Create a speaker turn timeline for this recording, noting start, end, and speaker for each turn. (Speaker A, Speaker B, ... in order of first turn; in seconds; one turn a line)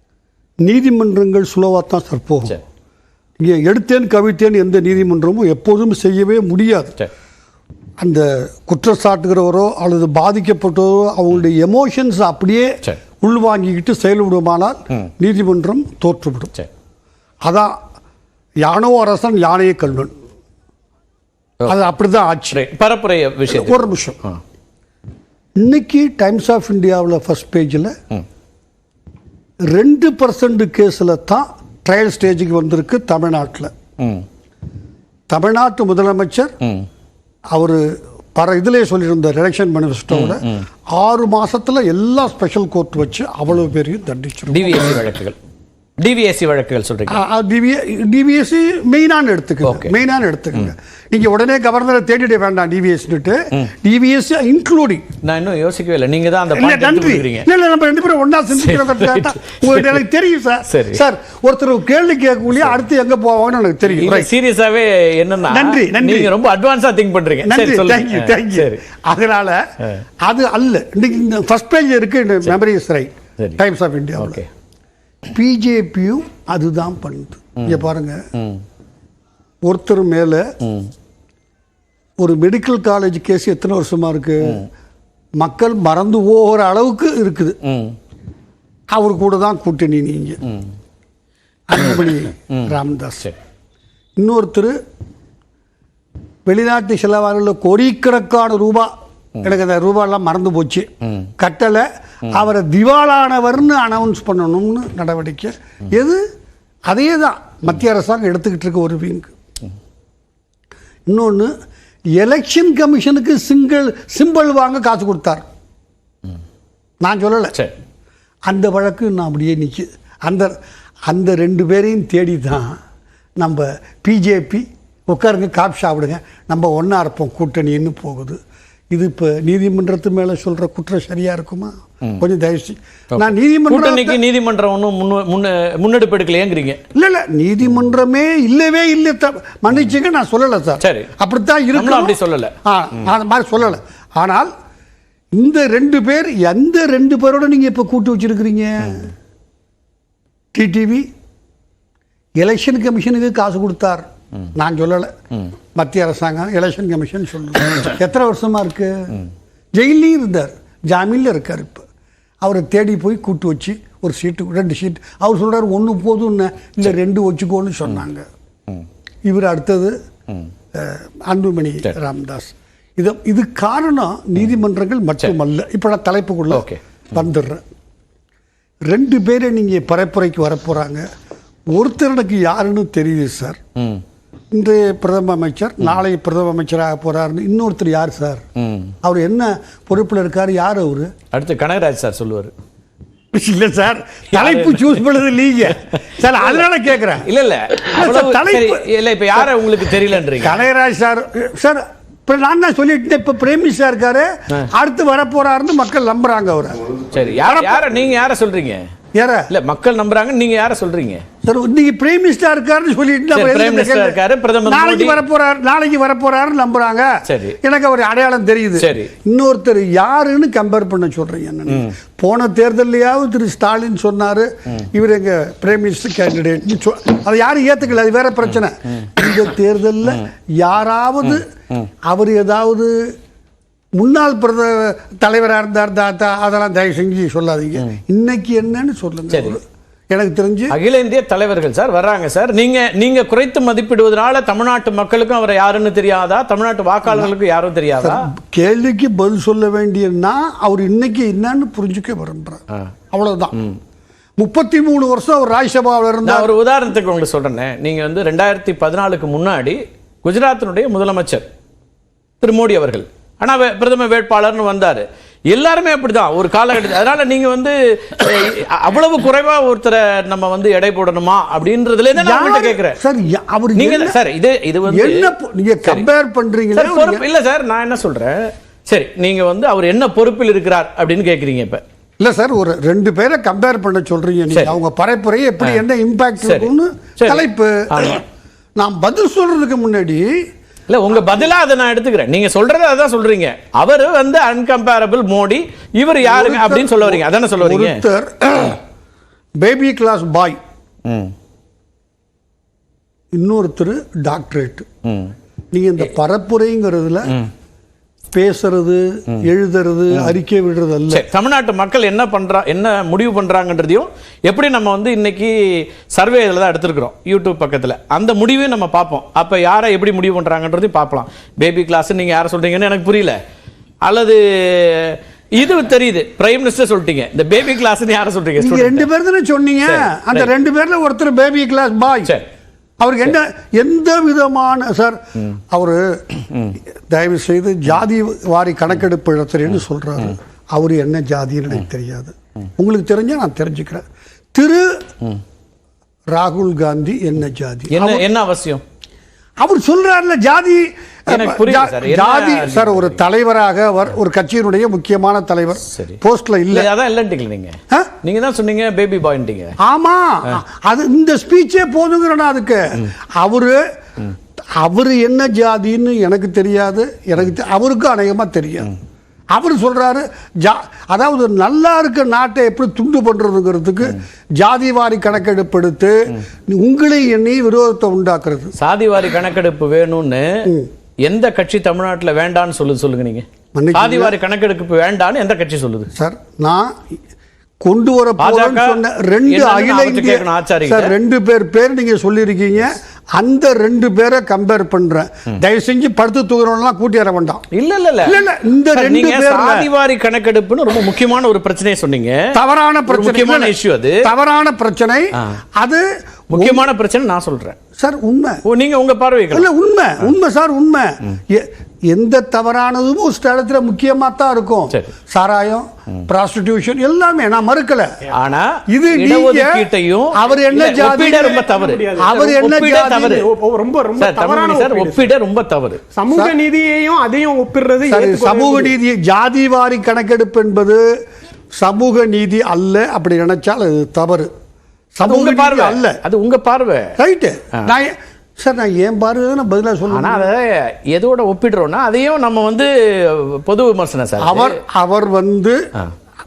Speaker A: 0.6-2.6
Speaker A: 3.4-7.0
Speaker A: 8.0-16.5
Speaker A: 17.4-17.7
Speaker A: 18.6-20.1
Speaker A: 21.6-22.6
Speaker B: 22.5-24.4
Speaker A: 23.5-24.2
Speaker A: 25.6-27.9
Speaker A: 29.7-33.7
Speaker B: 34.0-34.2
Speaker A: 35.3-36.5
Speaker A: 37.5-45.0
Speaker B: 40.1-40.6
Speaker B: 44.5-45.4
Speaker B: 46.0-47.2
Speaker A: 47.1-55.0
Speaker B: 49.6-49.9
Speaker B: 55.2-57.5
Speaker A: 56.5-64.3
Speaker B: 58.6-59.9
Speaker B: 60.7-61.0
Speaker B: 63.9-68.8
Speaker A: 65.5-66.3
Speaker A: 67.4-69.6
Speaker A: 70.2-74.4
Speaker B: 74.2-74.5
Speaker A: 75.3-78.2
Speaker B: 78.3-78.6
Speaker A: 79.6-80.4
Speaker B: 80.6-80.9
Speaker A: 82.2-84.6
Speaker A: 85.4-87.5
Speaker B: 87.6-88.0
Speaker A: 88.9-90.4
Speaker A: 91.7-93.3
Speaker A: 94.2-94.7
Speaker A: 96.5-98.9
Speaker A: 99.4-100.9
Speaker A: 101.4-106.2
Speaker A: 106.9-109.3
Speaker A: 111.1-111.5
Speaker A: 112.1-115.5
Speaker A: 117.0-117.5
Speaker A: 118.5-120.5
Speaker A: 121.1-122.8
Speaker A: 123.4-128.4
Speaker A: 128.9-134.2
Speaker B: 133.2-136.8
Speaker A: 136.9-144.5
Speaker B: 140.8-141.1
Speaker B: 141.7-142.5
Speaker A: 145.3-149.1
Speaker A: 150.5-151.1
Speaker A: 152.4-155.1
Speaker A: 155.7-159.2
Speaker A: 159.7-161.8
Speaker A: 162.4-168.2
Speaker A: 169.2-169.9
Speaker A: 170.7-177.6
Speaker B: 176.5-176.8
Speaker A: 178.9-181.0
Speaker A: 181.7-183.6
Speaker B: 183.8-184.0
Speaker A: 184.5-188.4
Speaker B: 188.6-188.9
Speaker A: 189.0-191.1
Speaker B: 191.3-192.5
Speaker A: 193.3-197.3
Speaker B: 194.3-195.0
Speaker B: 197.2-200.6
Speaker A: 197.9-207.9
Speaker B: 207.1-208.8
Speaker A: 209.1-209.5
Speaker B: 209.5-211.2
Speaker A: 211.4-217.1
Speaker B: 213.3-215.2
Speaker B: 217.2-217.6
Speaker A: 217.6-231.5
Speaker B: 218.8-219.1
Speaker A: 232.0-233.1
Speaker A: 233.9-240.7
Speaker B: 239.3-239.6
Speaker B: 240.7-248.2
Speaker A: 248.0-253.6
Speaker A: 254.4-256.5
Speaker B: 256.2-261.4
Speaker B: 262.4-273.0
Speaker A: 272.1-274.2
Speaker B: 273.8-275.3
Speaker A: 274.9-277.2
Speaker B: 276.7-281.8
Speaker A: 282.2-288.2
Speaker B: 286.4-287.4
Speaker B: 287.9-288.2
Speaker A: 288.8-290.3
Speaker B: 290.9-298.0
Speaker A: 291.2-291.4
Speaker A: 296.2-298.8
Speaker A: 299.6-300.6
Speaker B: 301.1-301.3
Speaker A: 303.3-304.9
Speaker B: 305.0-305.3
Speaker A: 305.7-307.3
Speaker A: 308.3-311.2
Speaker B: 311.1-323.4
Speaker B: 324.0-329.1
Speaker A: 328.6-332.3
Speaker B: 329.9-330.5
Speaker A: 333.0-335.2
Speaker A: 335.7-336.1
Speaker A: 337.1-344.9
Speaker A: 346.3-348.2
Speaker B: 347.9-348.8
Speaker A: 349.6-356.9
Speaker B: 351.3-353.2
Speaker B: 355.9-356.2
Speaker B: 356.7-359.8
Speaker A: 359.8-363.8
Speaker A: 364.8-368.9
Speaker A: 369.5-376.1
Speaker A: 376.7-378.7
Speaker B: 378.8-380.7
Speaker B: 381.2-386.1
Speaker A: 383.7-384.3
Speaker A: 386.1-386.9
Speaker A: 387.8-397.6
Speaker B: 388.4-391.1
Speaker B: 397.7-398.4
Speaker A: 398.2-399.9
Speaker B: 398.9-402.5
Speaker A: 402.5-406.9
Speaker B: 403.1-404.2
Speaker B: 406.5-407.8
Speaker A: 408.0-408.6
Speaker B: 408.6-409.7
Speaker A: 409.5-418.2
Speaker B: 418.3-423.5
Speaker A: 418.9-421.6
Speaker C: 421.1-425.3
Speaker A: 422.2-423.4
Speaker B: 424.2-426.0
Speaker C: 426.1-428.9
Speaker A: 426.3-426.6
Speaker A: 428.0-431.0
Speaker A: 431.8-434.5
Speaker A: 435.1-436.2
Speaker B: 435.2-437.1
Speaker A: 437.2-440.5
Speaker B: 440.1-444.8
Speaker A: 444.4-445.8